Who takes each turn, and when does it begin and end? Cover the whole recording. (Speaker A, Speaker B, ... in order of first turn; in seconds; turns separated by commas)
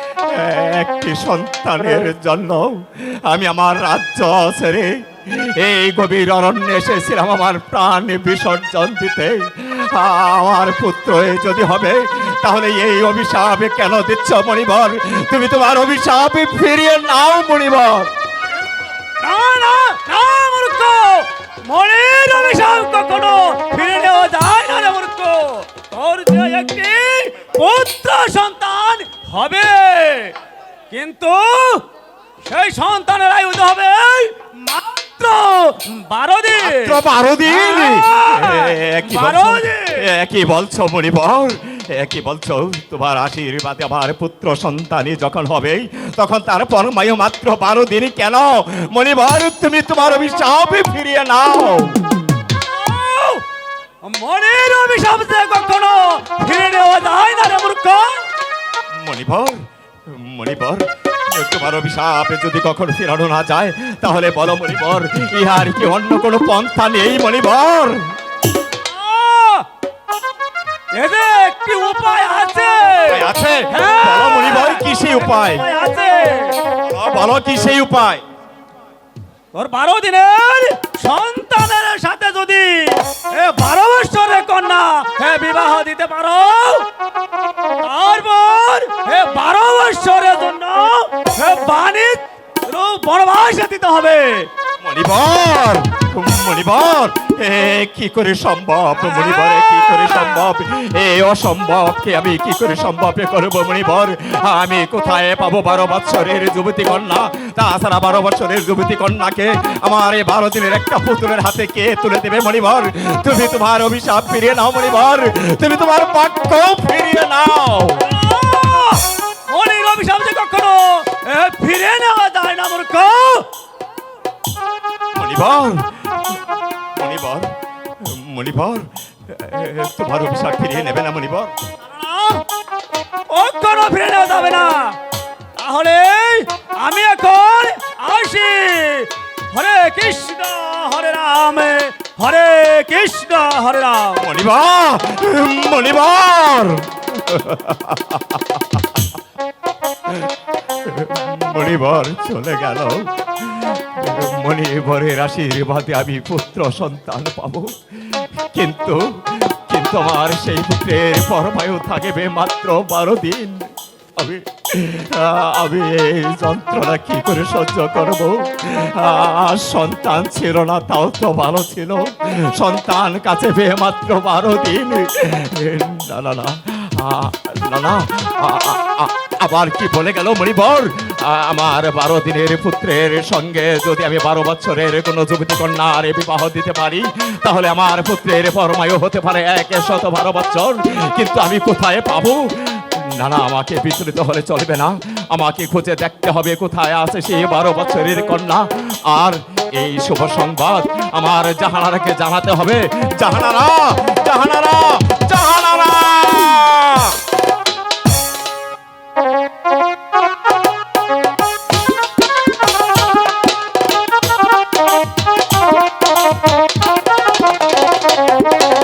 Speaker A: 0.3-18.1, Speaker B: 19.2-30.3, Speaker B: 30.9-31.8, Speaker B: 32.5-40.0, Speaker A: 36.6-52.0, Speaker B: 52.6-53.4, Speaker B: 54.0-58.3, Speaker A: 59.0-59.5, Speaker A: 60.1-68.1, Speaker B: 68.8-69.7, Speaker B: 70.9-76.6, Speaker A: 73.1-75.6, Speaker A: 76.8-78.2, Speaker B: 79.5-86.9, Speaker B: 87.8-94.5, Speaker A: 94.8-118.0, Speaker B: 99.0-100.5, Speaker B: 118.0-123.5, Speaker A: 125.1-126.4, Speaker A: 127.0-127.5, Speaker A: 128.0-131.5, Speaker B: 131.8-132.4, Speaker B: 133.3-135.0, Speaker B: 135.6-144.2, Speaker A: 144.2-149.1, Speaker A: 150.8-207.2